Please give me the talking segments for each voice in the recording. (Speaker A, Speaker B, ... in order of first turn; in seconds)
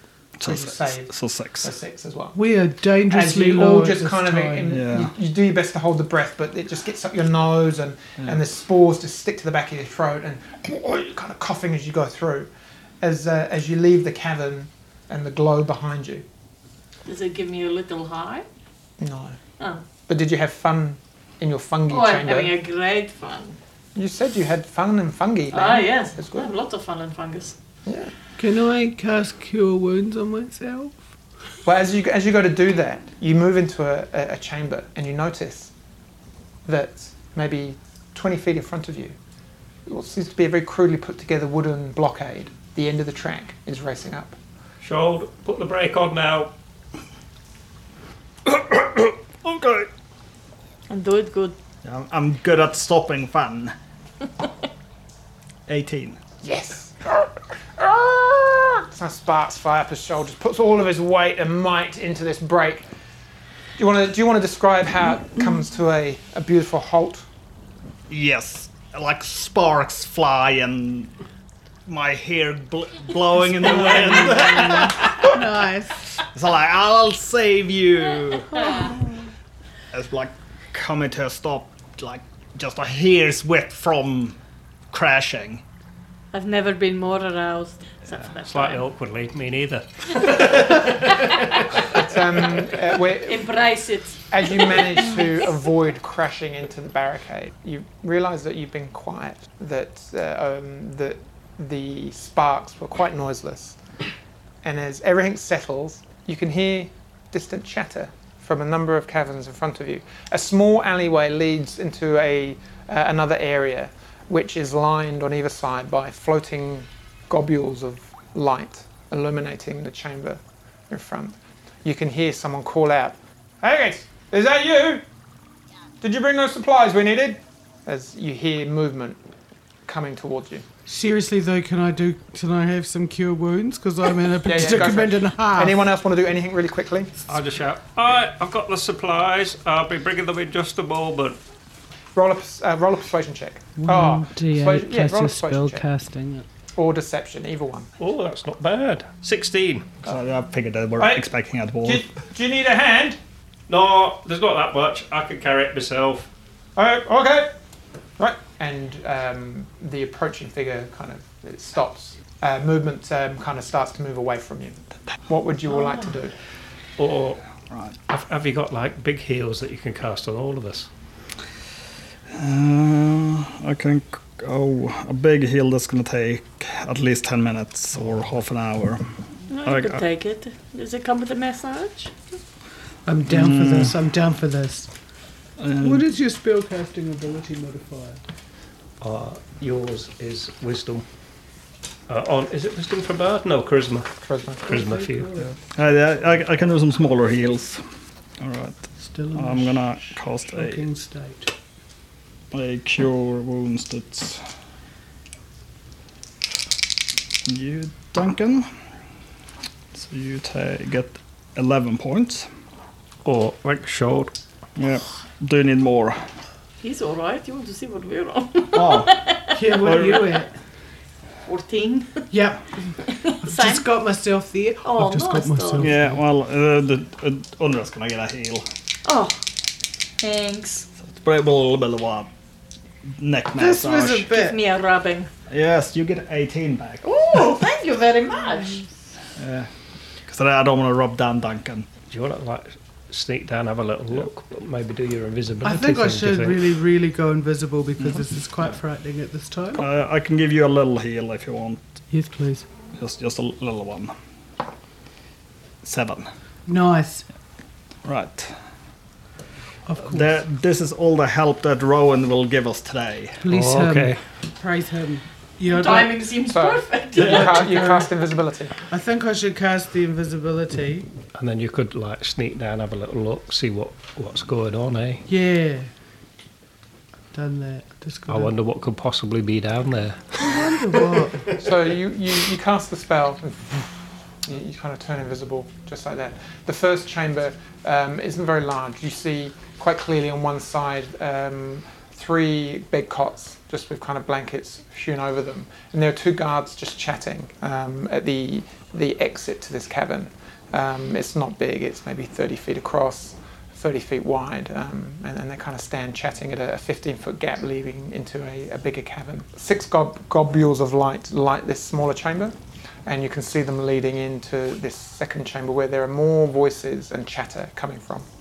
Speaker A: 0.4-1.7, 4.7-5.1, 48.5-49.9, 51.8-53.8, 55.7-56.2, 68.1-71.1, 71.9-75.5, 76.3-79.0, 79.9-84.4, 84.9-85.6, 150.1-152.0, 167.7-168.0, 172.3-179.0, 179.6-180.0, 183.3-184.0, 185.6-186.1, 195.7-197.8, 198.4-200.8, 202.5-204.4, 207.4-208.7, 209.9-212.5, 214.8-216.2, 218.7-219.2, 219.7-220.3, 225.8-228.7, 231.0-232.3, 233.1-234.3, 235.5-237.1, 239.4-239.7, 240.3-241.9, 249.8-251.8, 252.9-254.1, 255.8-256.3, 258.0-258.6, 260.0-263.4
Speaker B: 0.4-2.4, 3.1-12.5, 13.0-16.3, 19.0-19.4, 20.1-22.5, 24.0-26.5, 27.9-28.1, 31.6-35.7, 36.7-39.2, 39.9-44.4, 56.4-62.9, 63.8-67.2, 91.9-93.5, 94.3-103.8, 104.6-125.0, 126.0-129.2, 129.9-130.7, 134.4-137.1, 142.2-145.8, 146.8-147.9, 151.0-151.3, 151.8-153.2, 156.8-157.5, 158.2-166.3, 194.2-194.7, 266.5-268.7, 281.6-283.9, 284.4-318.3
Speaker C: 2.3-4.7, 28.4-31.0, 73.5-76.2, 130.9-135.8, 143.8-146.5, 183.1-184.9, 185.8-188.2, 194.7-195.5, 199.0-201.5, 219.5-220.5, 222.3-226.2, 233.6-234.6, 245.6-249.8, 252.1-252.7, 256.7-257.2, 259.9-260.3, 263.4-266.3, 267.2-268.1, 268.9-271.1, 275.3-275.9, 277.3-278.5, 280.4-281.5
Speaker D: 17.1-18.5, 19.6-19.9, 21.9-23.6, 25.5-27.6, 50.9-51.6, 78.5-79.0, 86.3-88.8, 90.2-91.6, 92.5-95.4, 179.5-182.2, 216.8-220.0, 221.4-222.3, 223.0-223.9, 224.8-225.9, 229.1-229.4, 230.2-230.9, 234.2-235.3, 237.0-238.9, 265.7-267.9
Speaker E: 44.8-46.5, 88.5-91.4, 137.3-141.4, 148.0-149.9, 153.7-156.3, 167.0-167.4, 168.1-170.9, 189.0-191.1, 192.1-194.1, 194.6-195.3, 213.2-214.3, 242.1-246.7, 263.5-264.2, 271.4-275.2, 278.3-281.6